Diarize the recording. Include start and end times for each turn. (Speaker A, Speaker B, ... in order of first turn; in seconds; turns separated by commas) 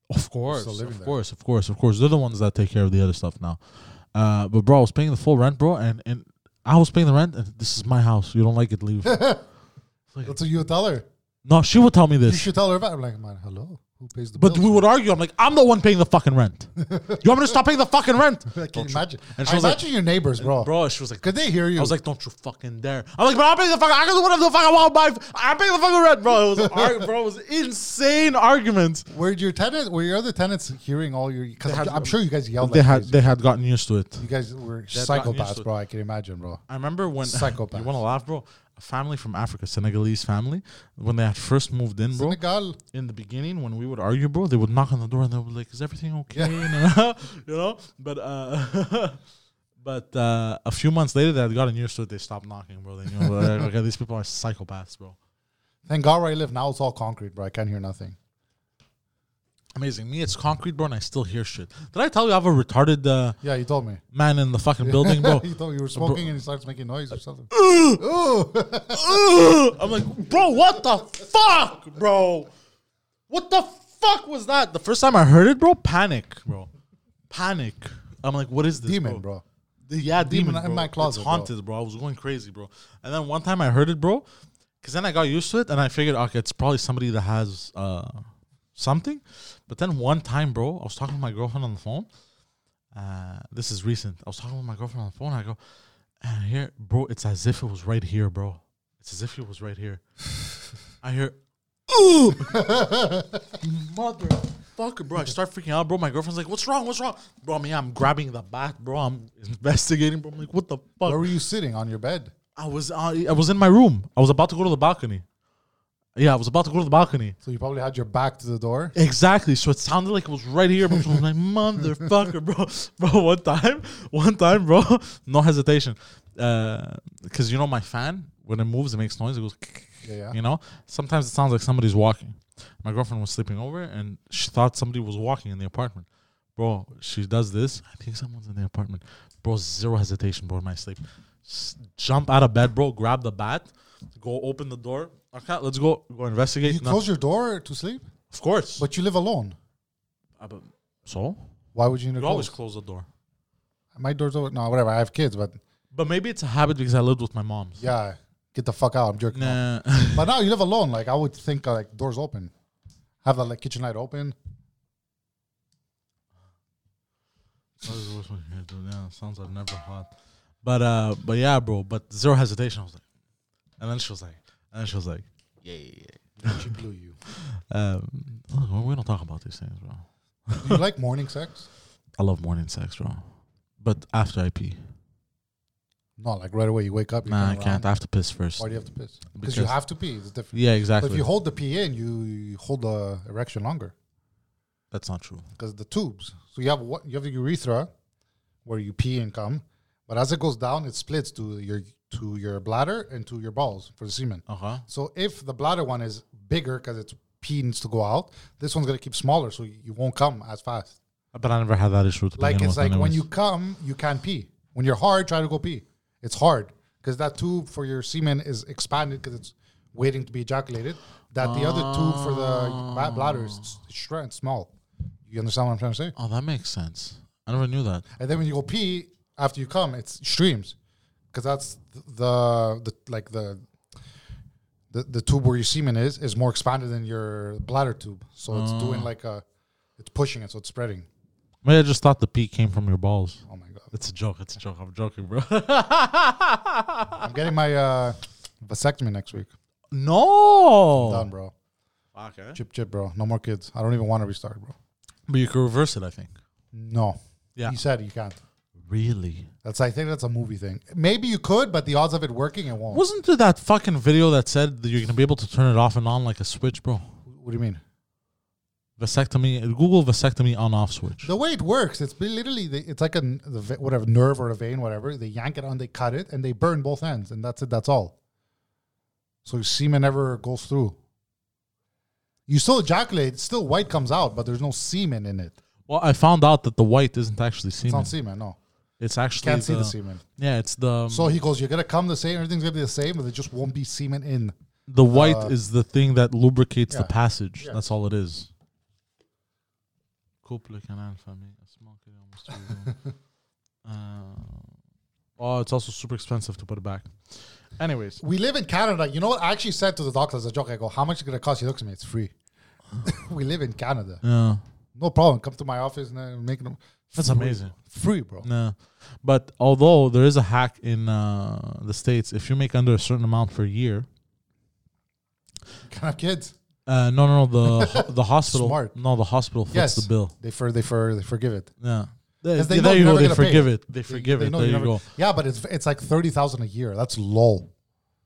Speaker A: 0.1-9.4, Speaker B: 0.5-1.1, Speaker B: 9.0-9.4, Speaker B: 10.2-11.1, Speaker A: 11.4-12.5, Speaker B: 12.2-14.8, Speaker A: 14.4-19.8, Speaker B: 16.8-17.5, Speaker B: 18.5-20.7, Speaker A: 20.4-29.1, Speaker B: 21.2-21.9, Speaker B: 26.6-27.1, Speaker B: 29.1-33.3, Speaker A: 31.6-34.2, Speaker B: 34.2-36.6, Speaker A: 34.9-35.7, Speaker A: 36.7-42.4, Speaker B: 37.2-38.0, Speaker B: 42.1-42.8, Speaker A: 42.9-49.2, Speaker B: 46.3-46.8, Speaker A: 49.8-55.2, Speaker B: 53.2-53.5, Speaker B: 55.9-58.2, Speaker A: 59.7-63.4, Speaker B: 63.4-64.0, Speaker A: 64.1-66.2, Speaker B: 64.8-69.2, Speaker A: 67.5-68.0, Speaker A: 68.9-72.5, Speaker A: 73.3-76.7, Speaker A: 77.3-79.2, Speaker B: 78.8-79.4, Speaker A: 79.9-84.2, Speaker B: 80.2-81.5, Speaker A: 84.8-92.1, Speaker A: 92.9-95.6, Speaker A: 96.2-100.0, Speaker A: 101.0-101.4, Speaker A: 101.9-102.8, Speaker B: 102.5-103.5, Speaker A: 103.6-111.3, Speaker B: 111.0-112.3, Speaker A: 112.5-115.2, Speaker A: 116.2-117.4, Speaker B: 117.4-118.9, Speaker A: 118.9-147.0, Speaker B: 130.0-130.4, Speaker B: 146.6-148.1, Speaker A: 148.3-148.9, Speaker B: 148.8-149.6, Speaker A: 150.4-151.4, Speaker B: 151.7-152.5, Speaker A: 152.2-153.1, Speaker B: 153.9-155.6, Speaker A: 155.9-157.8, Speaker B: 157.8-162.5, Speaker A: 159.3-160.3, Speaker B: 163.2-164.4, Speaker A: 167.8-173.0, Speaker A: 173.8-176.7, Speaker B: 176.4-177.2, Speaker A: 177.3-180.8, Speaker B: 180.6-181.7, Speaker A: 182.2-183.2, Speaker A: 183.8-184.8, Speaker B: 186.2-187.8, Speaker A: 187.3-188.8, Speaker B: 188.6-193.9, Speaker A: 189.3-189.8, Speaker A: 190.5-191.2, Speaker A: 194.9-195.4, Speaker B: 195.6-197.9, Speaker B: 198.6-210.9, Speaker A: 204.5-204.8, Speaker A: 211.3-213.2, Speaker B: 212.4-224.7, Speaker A: 221.4-223.7, Speaker B: 225.3-226.1, Speaker A: 226.2-228.0, Speaker B: 228.2-230.7, Speaker B: 231.3-233.6, Speaker B: 234.9-239.4, Speaker A: 238.5-239.1, Speaker B: 240.0-241.1, Speaker A: 241.6-247.2, Speaker B: 243.5-243.9, Speaker B: 247.2-249.5, Speaker A: 249.9-251.3, Speaker B: 251.0-251.5, Speaker A: 252.1-252.6, Speaker B: 252.5-254.7, Speaker A: 255.3-256.3, Speaker B: 256.7-258.4, Speaker A: 258.8-259.5, Speaker B: 259.6-263.0, Speaker A: 262.9-267.1, Speaker B: 267.2-267.8, Speaker A: 269.0-271.3, Speaker B: 271.2-278.1, Speaker B: 279.4-281.0, Speaker B: 282.5-285.6, Speaker A: 285.9-288.1, Speaker B: 287.8-288.6, Speaker A: 289.0-291.4, Speaker B: 289.4-290.2, Speaker B: 291.1-294.5, Speaker A: 294.9-298.5, Speaker B: 295.1-295.5, Speaker B: 296.9-297.8, Speaker A: 300.4-303.0, Speaker A: 303.8-304.7, Speaker A: 305.4-308.2, Speaker B: 308.2-312.3, Speaker B: 313.0-314.2, Speaker A: 314.2-314.6, Speaker B: 314.9-318.5, Speaker A: 317.1-317.7, Speaker A: 318.4-324.1, Speaker B: 325.8-326.5, Speaker A: 326.9-330.3, Speaker B: 327.6-328.9, Speaker B: 329.7-331.7, Speaker A: 331.8-335.0, Speaker B: 332.6-337.7